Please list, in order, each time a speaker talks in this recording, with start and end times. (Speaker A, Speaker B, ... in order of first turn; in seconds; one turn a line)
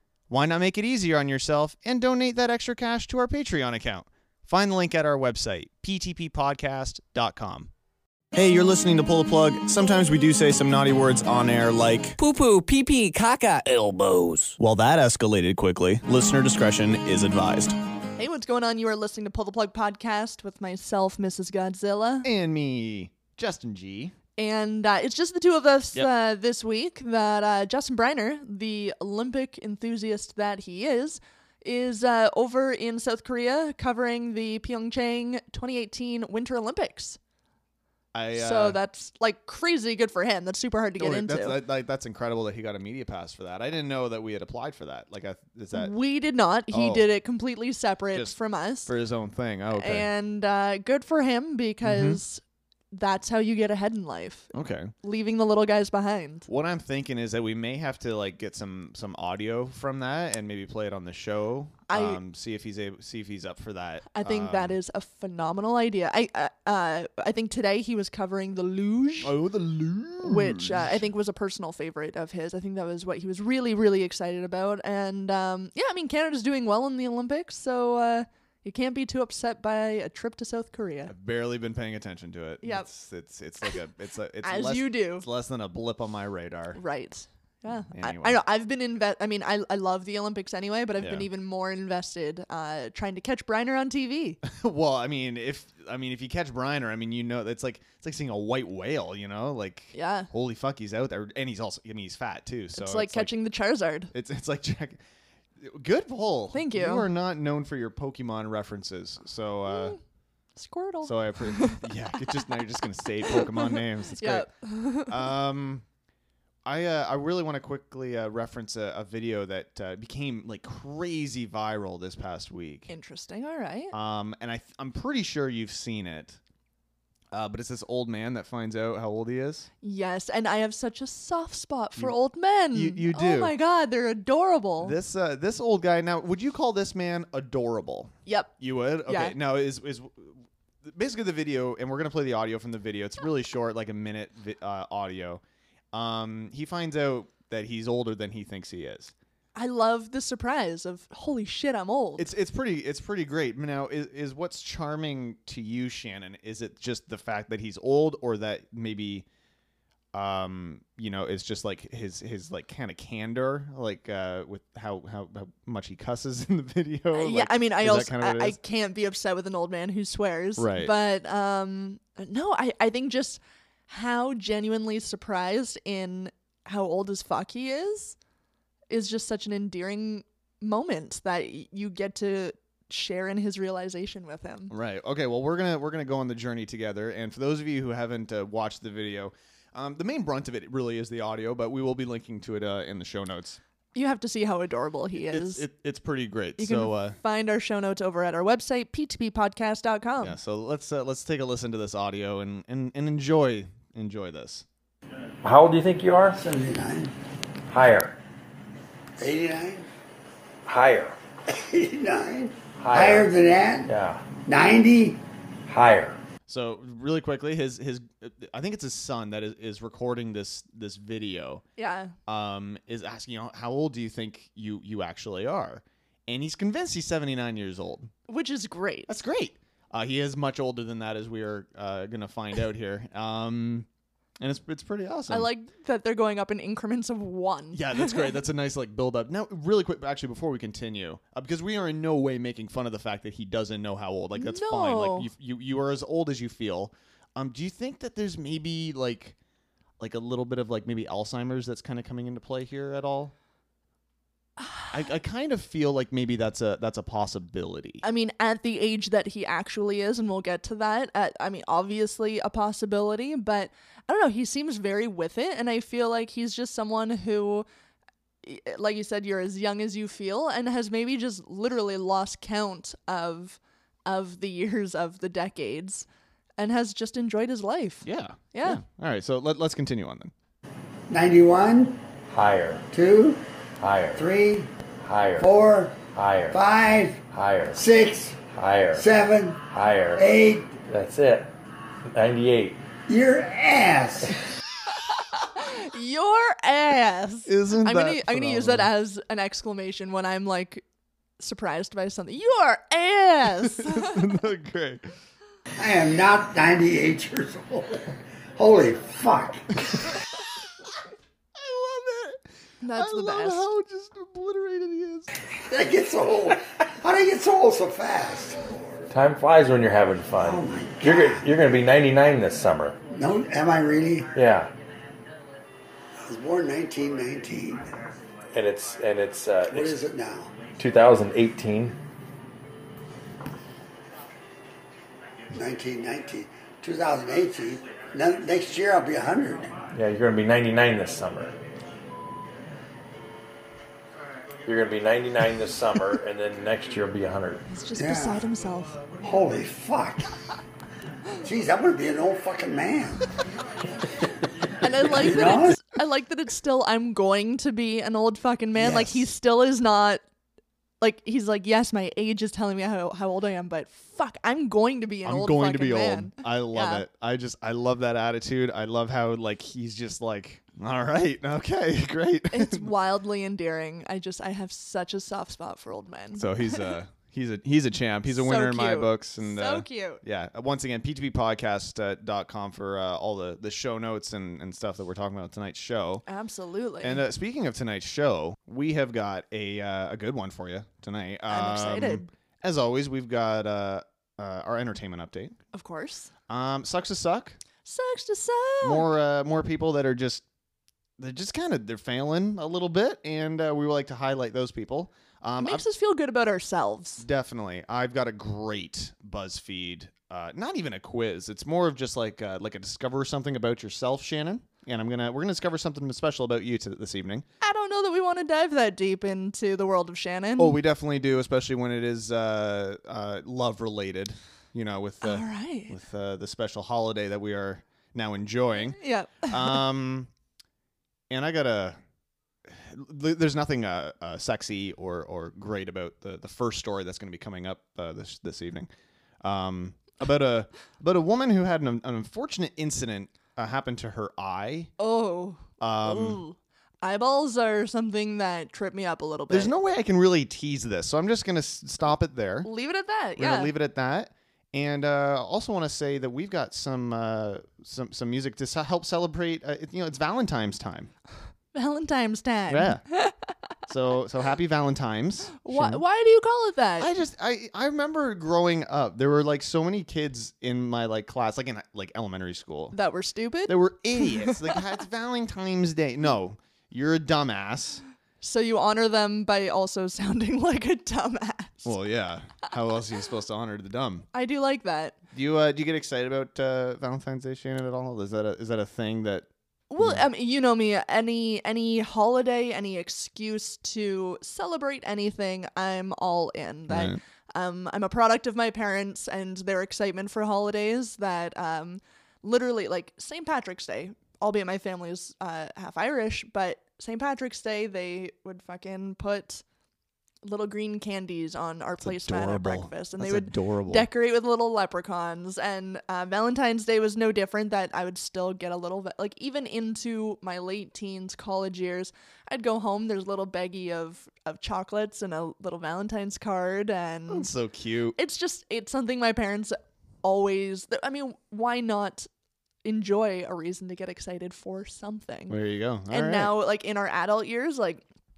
Speaker A: 0.3-7.7
Speaker A: 8.3-12.2
Speaker B: 12.2-14.6
Speaker A: 14.6-17.8
Speaker C: 18.2-22.3
Speaker A: 22.2-24.1
Speaker C: 24.4-37.2
Speaker A: 38.1-38.8
Speaker C: 38.3-41.6
Speaker A: 41.0-45.9
Speaker C: 45.7-48.9
Speaker A: 46.7-47.1
Speaker A: 48.1-50.1
Speaker C: 49.7-52.4
Speaker A: 51.8-52.2
Speaker C: 52.9-56.5
Speaker A: 54.5-54.9
Speaker A: 56.5-64.8
Speaker C: 61.9-62.2
Speaker C: 64.1-69.3
Speaker A: 69.2-71.1
Speaker C: 70.2-81.1
Speaker A: 81.1-86.8
Speaker C: 84.4-85.3
Speaker C: 86.8-94.4
Speaker A: 87.9-88.4
Speaker A: 91.0-91.3
Speaker A: 94.4-103.3
Speaker C: 99.9-100.3
Speaker C: 102.8-104.1
Speaker A: 104.1-105.0
Speaker A: 105.6-110.0
Speaker C: 106.5-107.1
Speaker C: 109.7-110.0
Speaker C: 110.6-112.3
Speaker A: 111.0-114.5
Speaker C: 113.3-115.3
Speaker A: 115.1-115.8
Speaker A: 116.7-122.9
Speaker C: 122.9-123.9
Speaker A: 123.9-126.4
Speaker A: 127.3-129.7
Speaker C: 129.8-135.0
Speaker A: 132.7-133.5
Speaker A: 134.8-145.4
Speaker C: 138.3-138.6
Speaker C: 139.1-139.4
Speaker A: 145.9-149.1
Speaker C: 149.6-152.3
Speaker A: 152.2-159.3
Speaker A: 160.1-168.6
Speaker C: 167.1-178.2
Speaker A: 170.6-170.9
Speaker C: 178.9-184.7
Speaker A: 184.7-193.6
Speaker C: 193.9-195.7
Speaker A: 195.2-197.2
Speaker C: 196.6-200.4
Speaker A: 200.2-204.7
Speaker D: 205.4-206.4
Speaker E: 206.3-207.1
Speaker D: 207.7-208.2
Speaker E: 209.2-209.9
Speaker D: 210.7-211.2
Speaker E: 211.5-213.9
Speaker D: 212.8-213.3
Speaker D: 213.9-214.2
Speaker E: 214.5-215.2
Speaker D: 215.7-216.2
Speaker A: 216.5-221.6
Speaker C: 221.8-222.1
Speaker A: 222.3-228.1
Speaker C: 228.3-229.1
Speaker A: 229.1-233.9
Speaker A: 234.4-235.5
Speaker C: 235.3-238.4
Speaker A: 237.7-249.3
Speaker C: 244.4-245.3
Speaker A: 250.0-253.3
Speaker C: 254.6-254.9
Speaker A: 254.9-258.0
Speaker C: 258.0-267.7
Speaker C: 268.4-276.1
Speaker C: 276.6-278.8
Speaker A: 278.0-280.3
Speaker E: 281.1-282.0
Speaker D: 282.3-282.9
Speaker E: 282.9-283.4
Speaker D: 283.8-284.2
Speaker E: 284.2-284.7
Speaker D: 285.0-285.5
Speaker E: 285.4-286.0
Speaker D: 286.1-286.6
Speaker E: 286.5-287.2
Speaker D: 287.3-287.8
Speaker E: 287.7-288.4
Speaker D: 288.5-289.1
Speaker E: 289.0-289.6
Speaker D: 289.7-290.3
Speaker E: 290.1-290.8
Speaker D: 290.9-291.5
Speaker D: 292.1-292.8
Speaker E: 293.1-294.4
Speaker C: 295.4-300.8
Speaker A: 297.5-298.9
Speaker C: 301.4-304.2
Speaker A: 303.6-305.1
Speaker E: 305.8-310.1
Speaker A: 311.6-312.4
Speaker C: 312.8-313.6
Speaker A: 312.9-315.3
Speaker E: 315.6-318.7
Speaker D: 319.1-323.0
Speaker E: 320.4-321.5
Speaker E: 323.1-324.3
Speaker D: 324.4-324.7
Speaker E: 326.2-327.9
Speaker D: 328.5-330.0
Speaker E: 329.7-330.5
Speaker D: 330.7-332.0
Speaker E: 335.5-339.8
Speaker D: 339.9-341.6
Speaker D: 344.6-347.6
Speaker C: 347.7-349.0
Speaker E: 347.9-348.4
Speaker E: 349.2-350.4
Speaker E: 351.4-353.3
Speaker C: 354.8-360.2
Speaker E: 354.8-355.8
Speaker E: 358.7-359.3
Speaker C: 361.0-367.0
Speaker A: 365.2-372.9
Speaker C: 372.5-376.9
Speaker A: 376.4-386.2
Speaker C: 378.3-380.2
Speaker C: 386.3-387.2
Speaker A: 387.0-395.6
Speaker C: 391.5-392.3
Speaker C: 395.7-396.3
Speaker A: 396.5-397.6
Speaker C: 397.9-399.1
Speaker A: 398.8-400.4
Speaker A: 401.2-405.8
Speaker C: 405.6-407.2
Speaker A: 407.2-417.5
Speaker C: 417.6-420.8
Speaker A: 420.6-430.3
Speaker C: 425.2-425.9
Speaker C: 428.9-429.8
Speaker A: 431.3-432.0
Speaker A: 432.7-438.9
Speaker A: 439.4-444.9
Speaker C: 445.0-449.7
Speaker A: 445.8-446.4
Speaker A: 449.5-452.7
Speaker C: 452.6-453.7
Speaker A: 453.4-461.1
Speaker C: 461.7-463.4
Speaker A: 462.7-463.0
Speaker A: 463.9-466.0
Speaker C: 465.6-467.1
Speaker A: 467.0-473.0
Speaker C: 472.9-474.5
Speaker A: 473.7-478.0
Speaker C: 478.4-481.9
Speaker A: 481.9-484.3
Speaker C: 484.3-485.2
Speaker A: 485.3-489.5
Speaker C: 489.9-509.6
Speaker A: 496.9-497.2
Speaker C: 510.4-527.5
Speaker A: 512.0-514.1
Speaker A: 527.3-528.2
Speaker C: 528.2-532.3
Speaker C: 532.8-535.6
Speaker A: 535.5-536.5
Speaker C: 536.1-538.0